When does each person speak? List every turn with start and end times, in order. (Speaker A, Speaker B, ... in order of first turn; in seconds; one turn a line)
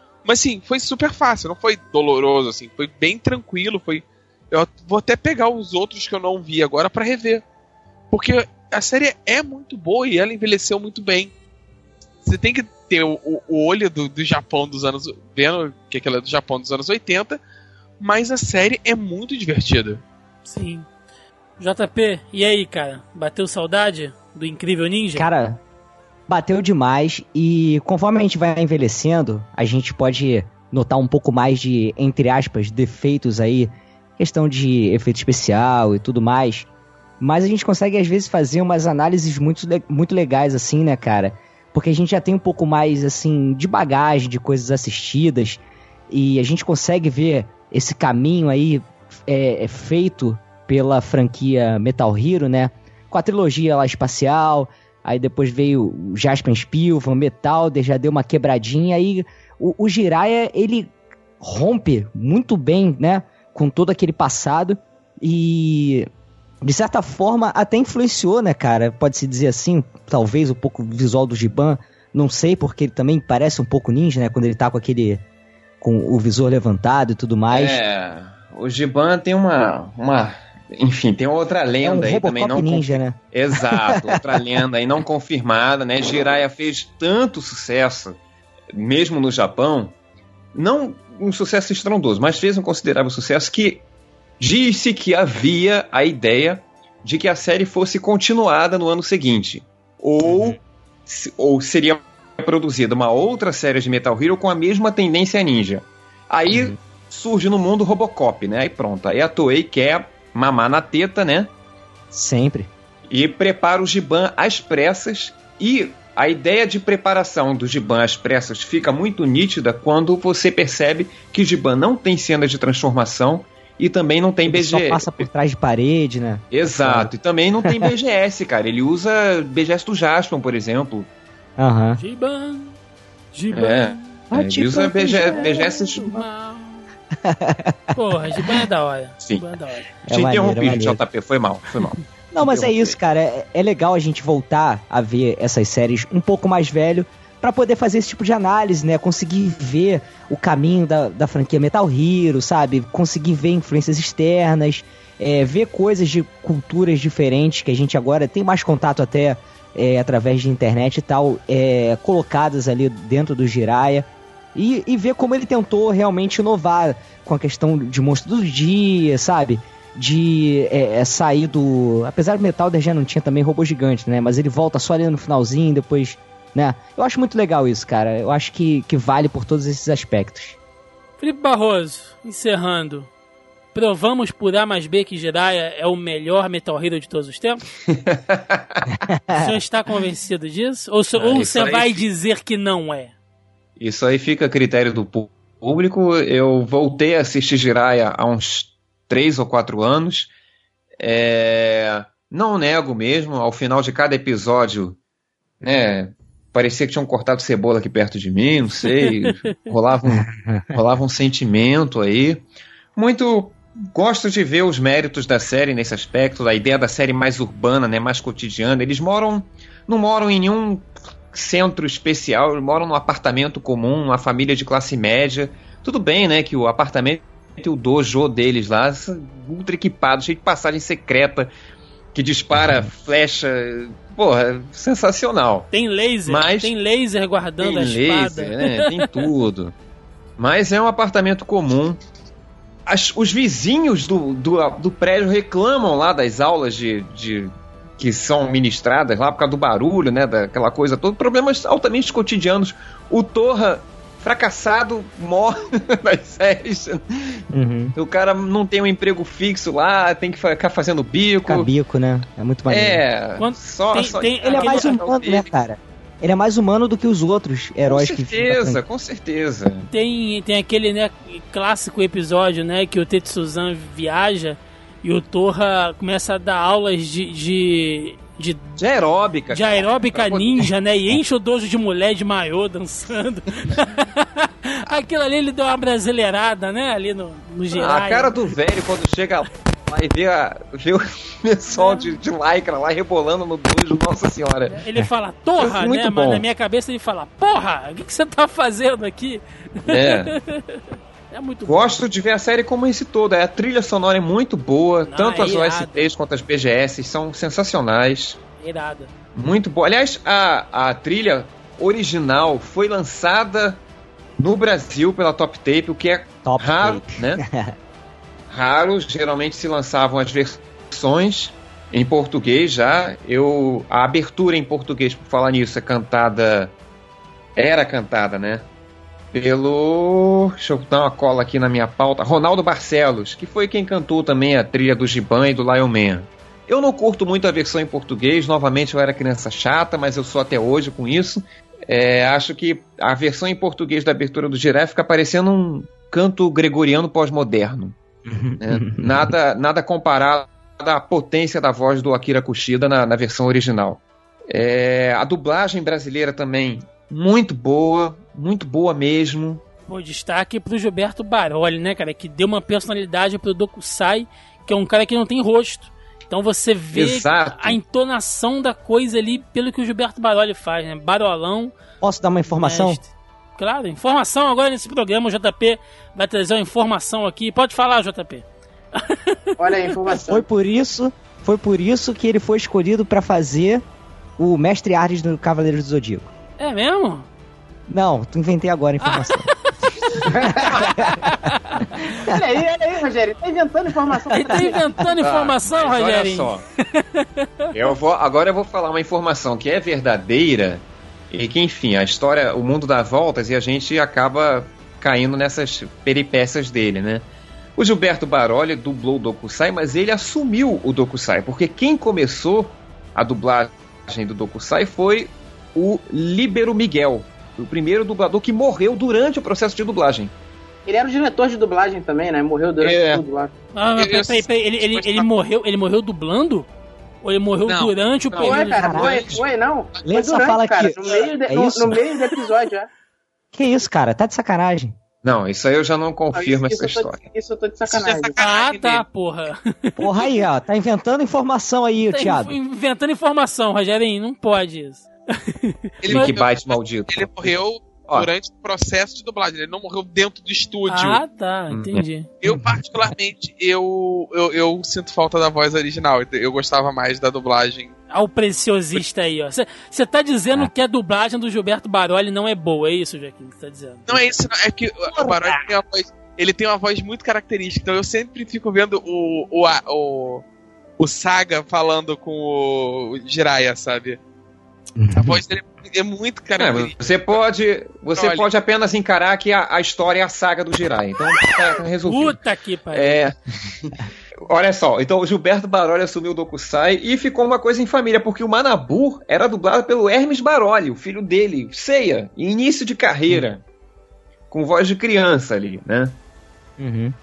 Speaker A: 0.2-7.4
Speaker A: 8.1-11.3
Speaker A: 12.2-17.4
Speaker A: 18.0-20.0
Speaker B: 20.4-20.9
Speaker B: 21.6-25.3
Speaker C: 25.1-25.6
Speaker C: 26.3-36.7
Speaker C: 37.2-66.1
Speaker C: 66.6-75.2
Speaker C: 75.8-77.8
Speaker D: 77.5-88.2
Speaker C: 81.8-84.3
Speaker D: 88.7-89.9
Speaker D: 90.5-93.8
Speaker D: 94.4-111.5
Speaker C: 100.2-100.6
Speaker C: 106.5-106.8
Speaker C: 112.1-112.7
Speaker D: 113.1-125.3
Speaker C: 124.5-127.1
Speaker D: 126.5-131.1
Speaker C: 131.6-132.0
Speaker B: 132.0-132.8
Speaker B: 133.3-134.2
Speaker D: 133.5-136.1
Speaker C: 134.3-136.2
Speaker B: 135.2-136.8
Speaker C: 137.2-137.9
Speaker B: 137.9-139.9
Speaker D: 139.2-139.5
Speaker D: 140.1-142.9
Speaker C: 140.1-141.0
Speaker C: 142.3-180.6
Speaker B: 181.2-183.1
Speaker B: 183.7-187.7
Speaker D: 187.9-188.9
Speaker B: 189.3-193.1
Speaker D: 191.2-192.0
Speaker D: 193.8-200.3
Speaker D: 201.0-205.0
Speaker D: 205.6-231.5
Speaker B: 209.0-209.5
Speaker C: 210.1-210.7
Speaker D: 232.1-235.7
Speaker B: 235.7-239.2
Speaker D: 236.2-236.7
Speaker D: 237.6-239.7
Speaker D: 240.4-242.0
Speaker D: 242.8-257.4
Speaker C: 257.5-257.9
Speaker D: 257.9-261.7
Speaker C: 261.4-263.0
Speaker D: 262.7-265.5
Speaker B: 263.4-264.9
Speaker C: 264.5-268.8
Speaker D: 267.8-269.9
Speaker B: 269.9-278.8
Speaker D: 278.8-280.7
Speaker B: 279.5-288.4
Speaker D: 287.7-294.8
Speaker B: 291.7-292.1
Speaker B: 294.7-302.0
Speaker D: 295.6-296.4
Speaker D: 299.9-300.4
Speaker D: 301.6-308.4
Speaker B: 305.1-306.1
Speaker B: 308.6-309.1
Speaker D: 309.4-313.8
Speaker D: 314.4-317.4
Speaker C: 316.4-317.7
Speaker D: 318.5-326.7
Speaker D: 327.6-328.6
Speaker D: 329.3-347.9
Speaker C: 348.3-349.3
Speaker D: 348.6-359.6
Speaker B: 359.9-371.7
Speaker D: 366.9-367.8
Speaker C: 372.0-373.0
Speaker B: 372.5-379.9
Speaker E: 379.6-380.4
Speaker C: 380.1-383.8
Speaker C: 384.4-386.3
Speaker B: 386.6-387.3
Speaker C: 387.9-389.5
Speaker B: 389.0-392.1
Speaker E: 390.2-390.9
Speaker C: 390.4-391.3
Speaker E: 392.2-394.8
Speaker B: 394.3-397.7
Speaker D: 395.2-396.6
Speaker D: 397.7-420.3
Speaker E: 420.9-423.5
Speaker D: 422.8-423.2
Speaker B: 423.7-426.7
Speaker A: 424.0-425.3
Speaker B: 427.2-429.3
Speaker A: 427.7-427.9
Speaker D: 428.3-428.7
Speaker E: 428.4-432.9
Speaker C: 428.8-429.3
Speaker C: 430.1-432.0
Speaker C: 433.5-435.0
Speaker D: 435.2-437.2
Speaker E: 436.3-438.3
Speaker A: 437.9-439.0
Speaker B: 438.4-440.4
Speaker C: 440.0-442.6
Speaker B: 442.1-446.3
Speaker A: 446.0-451.2
Speaker D: 446.1-447.3
Speaker B: 450.9-452.3
Speaker D: 451.7-452.0
Speaker A: 452.4-458.0
Speaker B: 458.1-464.1
Speaker A: 464.1-470.4
Speaker A: 471.0-474.2
Speaker C: 475.0-475.4
Speaker A: 475.1-477.4
Speaker D: 476.6-482.4
Speaker A: 478.1-478.4
Speaker B: 482.0-483.2
Speaker D: 482.9-493.6
Speaker D: 494.5-496.2
Speaker C: 496.8-497.1